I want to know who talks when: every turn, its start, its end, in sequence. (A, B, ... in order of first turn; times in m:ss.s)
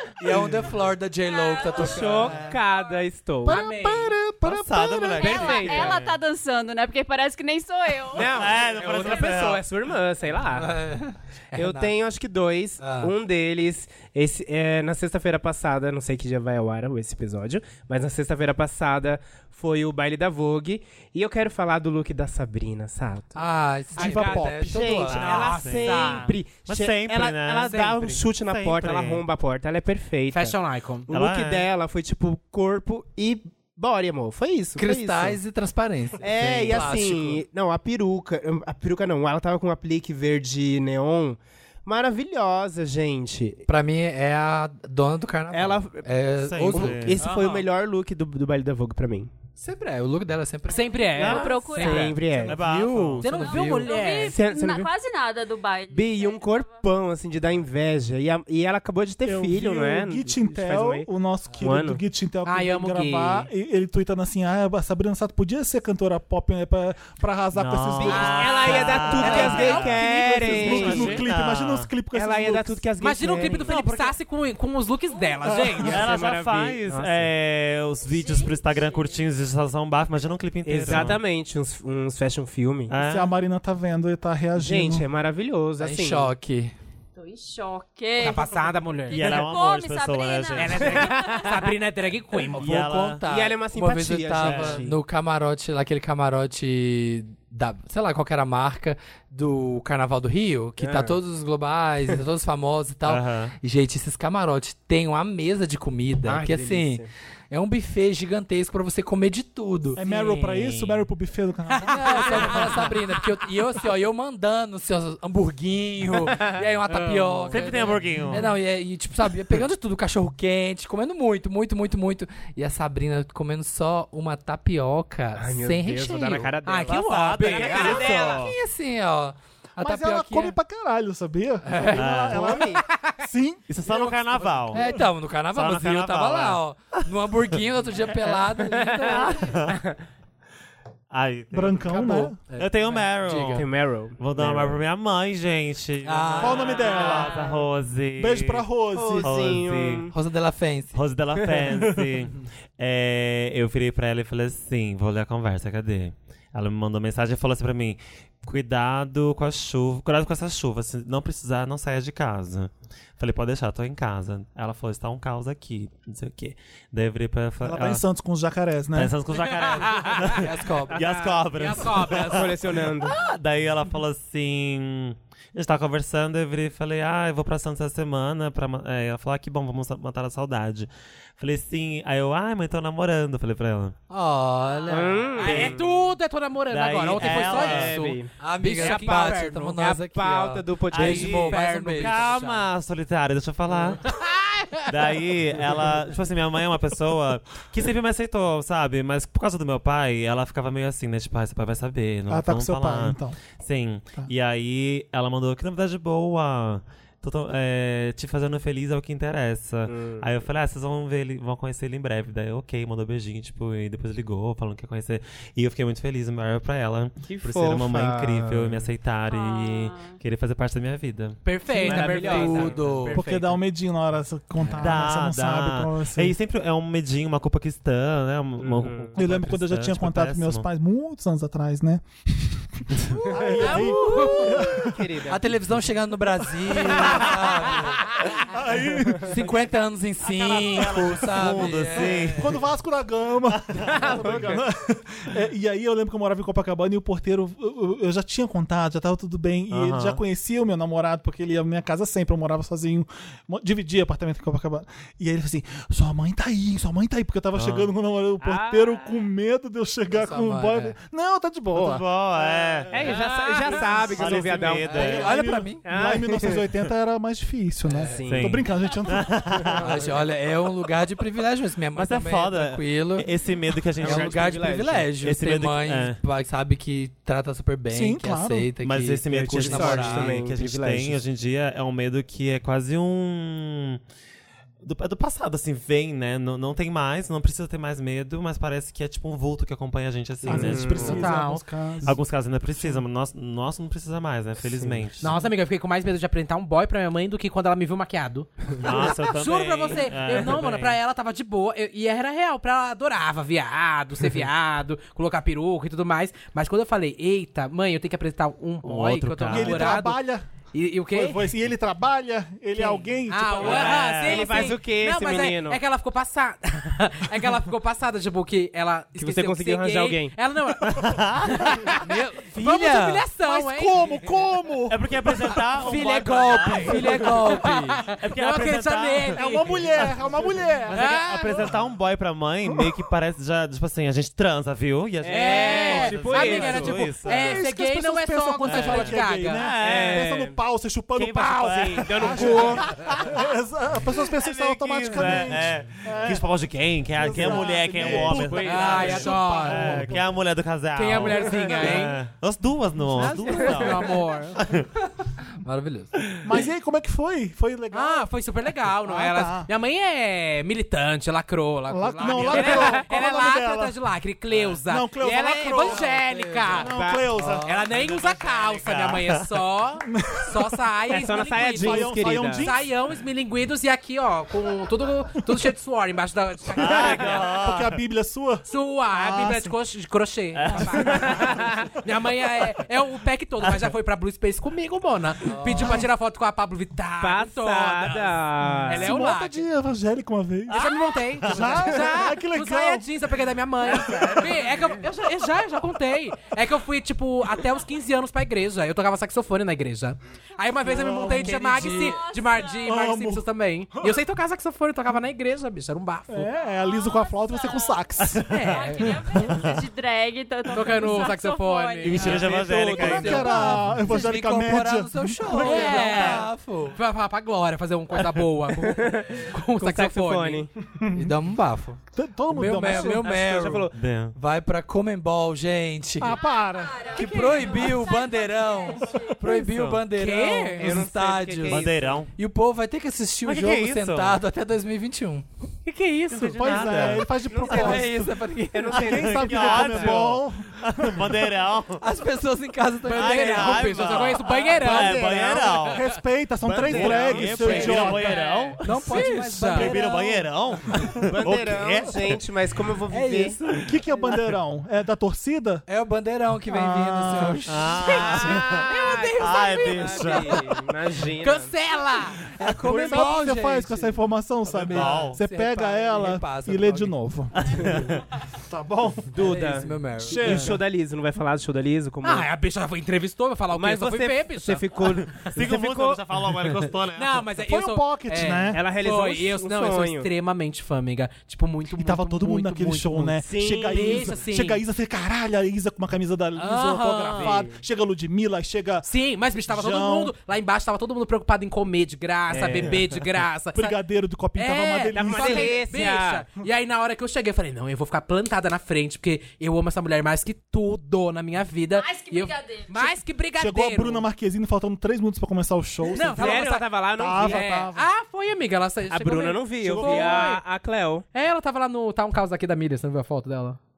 0:00.2-0:02.5 A
0:00.2-0:00.7 B
0:01.2-0:04.1 C
0:01.8-0:03.6 B
0:03.4-0:04.1 D
0:03.5-0:04.6 E
0:04.4-0:06.1 F
0:04.7-0:09.1 C
0:05.2-0:06.0 B
0:08.1-0:10.7 B
0:08.2-0:09.6 F
0:10.5-0:11.9 A
0:11.5-0:23.4 B
0:12.8-0:13.1 A
0:23.4-0:25.2 A
0:23.9-0:30.6 B
0:24.0-0:24.6 D
0:25.0-0:29.2 F
0:25.1-0:26.4 D
0:27.6-0:28.2 D
0:30.3-0:31.1 D
0:31.1-0:35.4 B
0:31.1-0:31.7 F
0:34.8-0:37.4 A
0:36.2-0:43.6 B
0:43.6-0:47.3 A
0:45.5-0:46.1 B
0:46.4-0:47.2 F
0:46.7-0:49.3 B
0:47.2-0:47.6 D
0:49.6-0:51.1 A
0:50.7-0:52.2 D
0:51.1-0:52.2 C
0:51.2-0:52.6 B
0:51.2-0:53.6 F
0:52.4-0:53.9 A
0:53.2-0:54.4 D
0:53.5-0:56.8 C
0:54.3-0:54.9 B
0:55.9-1:01.1 B
0:59.2-1:09.8 E
1:01.6-1:02.0 B
1:02.4-1:03.5 D
1:07.6-1:11.9 F
1:08.0-1:11.2 B
1:08.1-1:11.2 D
1:10.4-1:12.8 E
1:12.1-1:13.7 B
1:13.0-1:16.1 D
1:13.6-1:14.2 E
1:15.1-1:15.6 C
1:15.5-1:15.8 E
1:15.8-1:17.3 B
1:15.9-1:21.2 F
1:18.0-1:19.2 C
1:20.6-1:22.9 B
1:22.9-1:23.3 F
1:23.0-1:25.1 E
1:24.6-1:26.3 B
1:25.8-1:26.7 A
1:27.2-1:31.6 C
1:28.2-1:29.3 D
1:29.1-1:31.1 F
1:30.6-1:32.7 D
1:30.8-1:31.7 B
1:32.6-1:50.5 A
1:32.6-1:33.2 F
1:33.2-1:34.8 B
1:34.4-1:35.0 F
1:40.8-1:41.2 B
1:43.1-1:43.5 F
1:46.2-1:47.1 B
1:50.0-1:52.9 E
1:50.5-1:51.0 F
1:51.8-2:06.5 A
1:56.2-1:56.6 B
1:56.9-1:57.7 D
1:57.5-1:58.5 F
2:05.4-2:08.5 B
2:06.6-2:08.4 D
2:06.9-2:08.6 F
2:07.8-2:10.6 A
2:09.8-2:13.6 E
2:11.6-2:12.0 A
2:11.9-2:12.6 F
2:12.3-2:12.8 B
2:12.9-2:13.2 D
2:13.7-2:14.8 F
2:13.9-2:14.6 D
2:14.7-2:19.5 A
2:15.5-2:17.0 F
2:18.6-2:20.0 B
2:19.1-2:19.8 F
2:21.1-2:23.7 F
2:21.5-2:22.4 E
2:22.0-2:22.3 B
2:22.5-2:23.6 A
2:23.5-2:24.7 B
2:24.2-2:28.6 F
2:26.0-2:27.2 A
2:26.4-2:27.4 E
2:27.0-2:27.5 B
2:28.2-2:29.3 E
2:28.9-2:30.1 B
2:29.2-2:30.1 F
2:30.1-2:31.0 A
2:30.9-2:48.0 F
2:31.7-2:32.1 E
2:47.6-2:49.1 E
2:48.9-3:03.9 F
2:49.3-2:52.5 D
2:50.2-2:51.0 A
2:51.0-2:51.3 B
2:52.0-2:53.2 B
3:04.1-3:05.5 A
3:04.8-3:05.8 B
3:05.4-3:09.8 D
3:05.4-3:05.8 F
3:06.7-3:08.2 F
3:07.2-3:08.3 B
3:08.4-3:12.2 A
3:08.8-3:11.5 B
3:10.9-3:14.0 F
3:11.0-3:12.6 D
3:14.0-3:14.9 D
3:14.9-3:41.4 F
3:22.3-3:23.4 E
3:29.8-3:30.3 B
3:37.2-3:38.9 B
3:39.3-3:40.2 C
3:41.4-3:43.5 D
3:41.7-3:43.2 A
3:41.8-3:43.4 B
3:43.1-3:46.4 E
3:44.6-3:45.1 A
3:44.8-3:50.6 F
3:48.6-3:49.1 B
3:49.2-3:55.0 E
3:53.2-3:55.5 B
3:53.6-3:54.6 A
3:55.3-3:58.3 A
3:56.7-3:57.8 B
3:58.5-3:59.4 E
3:59.2-4:02.5 A
4:00.2-4:02.5 F
4:02.0-4:22.0 E
4:03.5-4:04.5 F
4:03.9-4:04.6 B
4:09.7-4:10.2 F
4:17.6-4:17.9 F
4:18.4-4:19.3 B
4:20.1-4:21.0 A
4:21.7-4:23.2 F
4:22.9-4:25.2 B
4:23.0-4:24.3 D
4:23.7-4:25.4 F
4:24.2-4:29.7 E
4:24.9-4:25.8 A
4:25.8-4:26.6 B
4:27.9-4:28.2 A
4:28.0-4:28.6 B
4:28.3-4:30.0 F
4:29.5-4:30.2 B
4:29.8-4:33.3 A
4:31.9-4:36.2 F
4:34.0-4:35.1 B
4:34.0-4:40.4 A
4:37.9-4:38.7 E
4:38.8-4:44.0 F
4:39.3-4:41.2 B
4:44.8-4:51.4 F
4:50.4-4:52.2 E
4:50.5-4:51.2 B
4:51.0-4:51.6 D
4:52.0-4:55.4 F
4:52.7-4:53.0 E
4:55.2-5:10.2 D
4:58.8-5:01.0 F
5:08.8-5:09.9 F
5:09.5-5:10.5 E
5:10.7-5:11.5 D
5:11.1-5:14.0 E
5:12.8-5:24.0 D
5:13.6-5:14.7 F
5:13.6-5:15.8 B
5:19.2-5:20.4 B
5:20.8-5:21.8 F
5:22.0-5:23.2 A
5:23.4-5:25.6 E
5:24.9-5:30.2 F
5:25.8-5:28.0 A
5:27.0-5:30.3 D
5:29.4-5:31.6 E
5:30.9-5:31.7 D
5:30.9-5:37.6 F
5:35.2-5:37.1 B
5:35.3-5:39.6 D
5:36.0-5:46.4 E
5:38.6-5:40.3 F
5:39.8-5:40.6 B
5:41.2-5:43.4 B
5:44.4-5:54.9 F
5:47.2-5:50.2 E
5:47.3-5:49.3 B
5:48.6-5:50.1 D
5:50.9-5:52.2 D
5:51.1-5:52.0 B
5:53.0-5:53.6 E
5:53.3-5:54.7 D
5:53.4-5:53.8 B
5:55.6-5:56.2 A
5:56.4-5:58.3 E
5:57.9-6:06.9 D
5:59.0-5:59.7 E
6:01.9-6:03.9 E
6:02.5-6:03.1 B
6:04.8-6:06.1 E
6:05.8-6:06.7 A
6:06.7-6:07.8 E
6:06.8-6:07.3 B
6:07.4-6:07.7 A
6:07.6-6:17.5 D
6:07.9-6:09.4 F
6:10.0-6:12.9 E
6:11.1-6:12.7 B
6:16.7-6:18.0 F
6:16.9-6:19.7 E
6:18.6-6:29.7 D
6:20.6-6:21.4 F
6:21.1-6:21.4 E
6:21.3-6:21.9 B
6:23.6-6:23.9 F
6:25.5-6:26.0 A
6:27.2-6:29.1 B
6:28.6-6:33.1 E
6:30.7-6:32.1 F
6:30.7-6:46.5 D
6:33.8-6:34.7 E
6:40.8-6:41.7 E
6:41.2-6:42.2 A
6:41.8-6:42.9 C
6:42.8-6:43.4 E
6:46.3-6:49.6 E
6:46.6-6:48.2 C
6:48.3-6:48.6 F
6:48.5-6:49.1 D
6:48.7-6:52.6 C
6:49.4-6:49.8 F
6:50.7-6:54.2 D
6:52.0-6:53.8 F
6:52.7-6:56.4 E
6:53.4-6:57.0 A
6:55.5-7:00.6 D
6:58.8-7:00.7 B
7:00.9-7:01.3 E
7:01.1-7:06.4 A
7:02.2-7:03.3 E
7:02.9-7:03.9 B
7:03.9-7:04.4 F
7:06.2-7:07.3 E
7:06.3-7:09.5 C
7:07.1-7:15.4 A
7:09.4-7:10.0 F
7:10.1-7:11.0 D
7:10.8-7:12.2 B
7:11.7-7:12.3 F
7:13.4-7:14.4 F
7:15.8-7:16.8 D
7:16.3-7:17.3 F
7:16.4-7:18.1 E
7:16.7-7:20.3 B
7:17.6-7:19.1 A
7:18.9-7:21.5 E
7:19.0-7:22.0 F
7:22.0-7:24.0 A
7:23.1-7:25.5 D
7:23.1-7:26.1 F
7:24.7-7:25.9 B
7:25.8-7:28.4 E
7:26.6-7:28.8 F
7:26.8-7:28.2 B
7:27.7-7:30.0 D
7:28.8-7:30.0 A
7:29.1-7:30.4 E
7:29.6-7:32.4 F
7:31.3-7:33.6 B
7:33.1-7:33.6 A
7:33.6-7:33.9 F
7:33.8-7:35.8 E
7:35.9-7:38.0 A
7:36.7-7:38.0 E
7:37.6-7:40.6 F
7:38.0-7:40.7 D
7:38.1-7:41.7 B
7:41.4-7:43.1 D
7:42.6-7:47.2 A
7:42.8-7:47.8 E
7:44.8-7:45.4 F
7:47.5-7:48.2 F
7:47.8-7:48.1 B
7:48.7-7:49.4 E
7:49.3-7:52.5 B
7:49.4-7:50.7 A
7:49.4-7:49.8 D
7:50.2-7:50.8 E
7:52.2-7:54.8 D
7:53.7-7:56.2 B
7:55.3-7:57.4 F
7:57.1-8:04.8 D
7:57.6-7:58.8 E
7:58.7-8:00.3 B
8:01.8-8:09.1 E
8:03.4-8:04.4 B
8:06.6-8:07.6 D
8:07.4-8:07.7 B
8:09.0-8:13.9 D
8:09.6-8:10.3 E
8:12.5-8:13.0 B
8:12.6-8:12.9 F
8:13.7-8:15.8 E
8:14.6-8:24.3 D
8:15.1-8:16.4 B
8:21.9-8:23.2 C
8:23.6-8:28.1 E
8:26.1-8:27.7 B
8:26.1-8:30.6 D
8:29.1-8:31.2 B
8:29.8-8:30.6 E
8:31.3-8:33.8 D